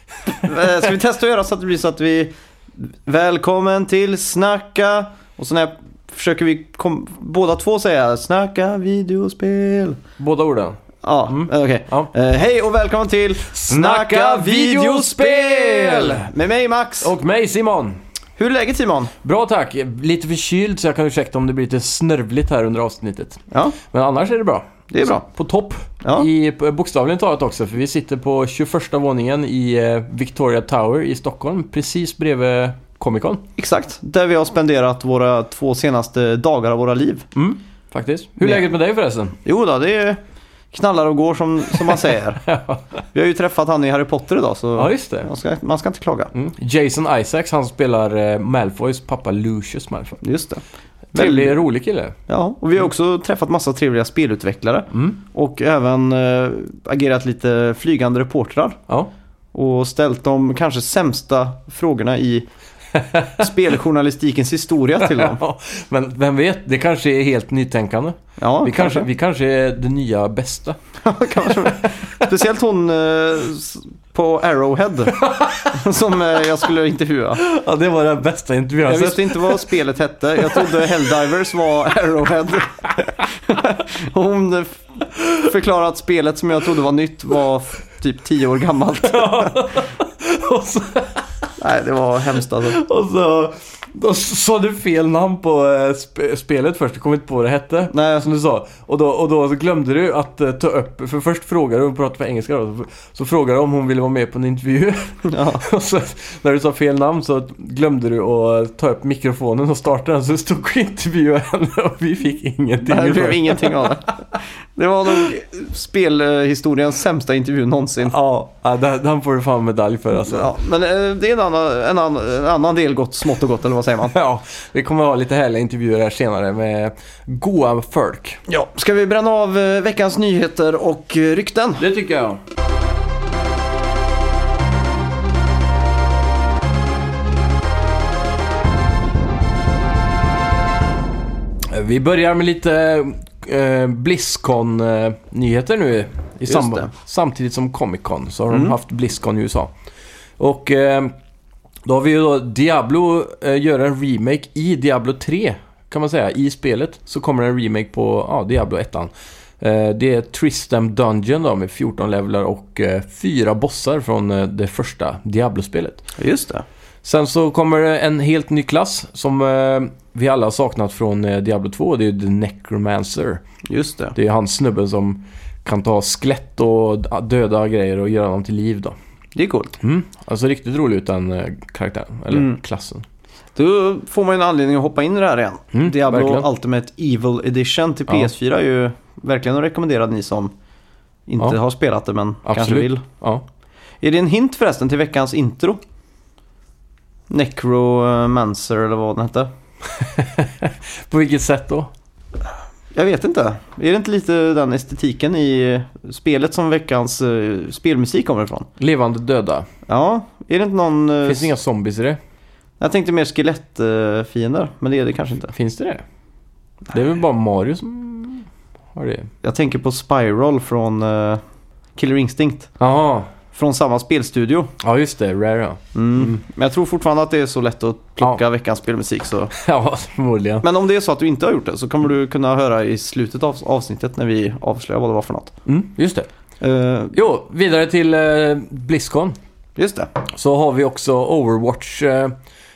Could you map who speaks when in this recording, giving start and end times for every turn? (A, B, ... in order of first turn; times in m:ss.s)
0:00.3-0:10.0 A
0:10.2-0:12.1 B
0:11.0-0:17.1 A
0:13.5-0:16.3 B
0:17.0-0:18.0 B
0:18.4-0:19.1 A
0:19.2-0:33.4 B
0:23.5-0:23.8 A
0:24.9-0:25.2 A
0:26.0-0:26.3 A
0:33.6-0:37.3 A
0:37.3-0:39.4 B
0:39.4-0:40.2 A
0:40.7-0:42.4 A
0:41.9-0:42.8 B
0:43.1-0:46.3 A
0:44.8-0:45.3 B
0:46.3-0:50.2 B
0:50.2-0:50.6 A
0:51.1-0:51.6 A
0:51.1-0:52.2 B
0:52.3-0:58.8 A
0:54.9-0:55.2 B
0:59.5-1:02.5 A
1:03.4-1:05.4 A
1:05.0-1:10.8 B
1:08.4-1:09.1 A
1:11.0-1:15.2 A
1:11.5-1:12.3 B
1:15.2-1:15.9 B
1:15.7-1:17.4 A
1:17.4-1:19.7 B
1:18.8-1:29.7 A
1:20.4-1:21.3 B
1:29.1-1:31.2 B
1:31.6-1:32.8 A
1:32.6-1:53.9 B
1:37.9-1:38.2 A
1:45.2-1:45.6 A
1:52.8-1:58.1 A
1:58.0-2:00.5 B
2:00.1-2:04.2 A
2:04.1-2:08.4 B
2:08.5-2:11.8 A
2:11.8-2:12.4 B
2:21.7-2:29.7 B
2:26.5-2:26.9 A
2:28.5-2:28.8 A
2:30.4-2:31.1 B
2:31.8-2:46.0 B
2:46.2-2:46.6 A
2:47.0-2:53.4 B
2:53.7-2:54.1 A
2:54.1-2:59.0 B
2:59.3-2:59.8 A
2:59.8-3:03.0 B
3:02.3-3:02.6 A
3:03.6-3:10.5 A
3:05.7-3:06.5 B
3:11.3-3:13.0 A
3:12.4-3:13.4 B
3:14.0-3:15.8 A
3:17.3-3:19.5 A
3:19.9-3:21.9 B
3:22.9-3:28.7 A
3:28.8-3:29.7 B
3:29.9-3:31.5 A
3:31.2-3:32.2 B
3:32.8-3:35.5 A
3:35.5-3:36.0 B
3:36.9-3:39.3 B
3:39.4-3:41.4 A
3:42.0-3:42.7 A
3:42.8-3:43.3 B
3:43.5-3:44.7 A
3:44.8-3:46.4 B
3:45.9-3:49.5 A
3:49.5-3:50.6 B
3:50.6-3:55.6 A
3:55.6-3:56.3 B
3:56.6-3:57.2 A
3:57.1-3:59.4 B
3:59.8-4:00.1 A
4:00.3-4:02.4 B